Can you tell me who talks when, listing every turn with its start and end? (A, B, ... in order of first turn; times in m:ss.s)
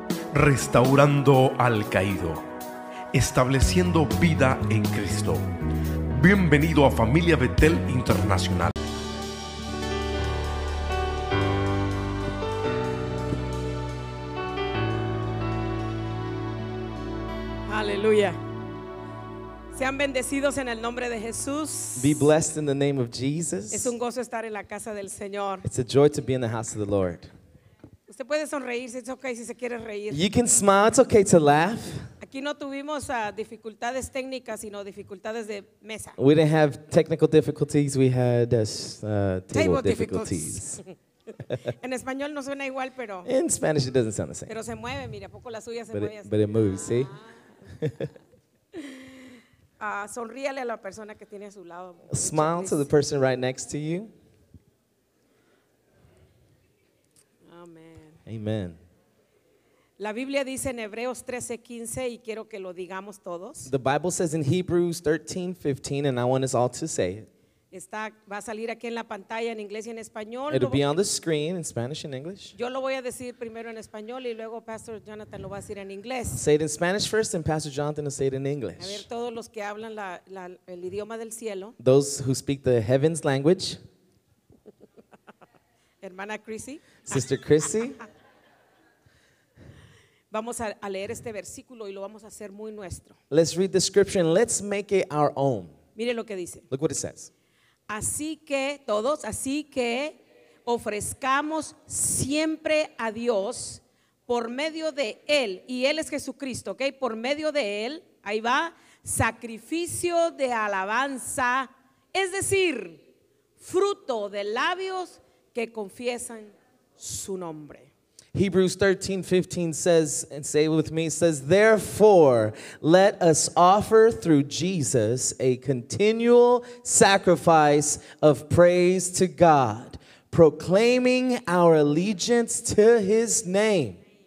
0:00.3-0:02.4 A
0:03.1-0:05.5 A
0:06.1-0:08.7 A
0:17.7-0:18.4 B
0:19.7-0:22.3 B
0:22.0-0:24.0 C
0:23.7-0:25.6 B
0:25.6-0:27.3 C
0:28.1-0:30.2 B
0:30.1-0:32.1 C
0:32.2-0:36.2 B
0:36.2-0:40.8 C
0:39.5-0:40.9 B
0:41.8-0:43.3 B
0:43.2-0:44.5 C
0:44.5-0:46.3 B
0:45.9-0:47.1 C
0:47.7-0:48.1 C
0:48.8-0:49.1 B
0:49.8-0:52.9 B
0:52.1-0:54.1 C
0:57.5-0:58.2 B
0:58.3-0:58.8 C
1:00.0-1:03.7 B
1:03.7-1:07.3 C
1:07.7-1:10.9 B
1:10.5-1:12.6 C
1:12.6-1:16.4 B
1:16.4-1:19.1 C
1:18.8-1:21.8 B
1:21.8-1:23.8 C
1:26.0-1:27.3 B
1:27.1-1:28.0 C
1:30.3-1:33.2 B
1:33.3-1:35.7 C
1:36.0-1:36.6 B
1:36.7-1:37.3 C
1:37.9-1:53.0 B
1:53.6-1:57.9 B
1:58.3-2:14.0 C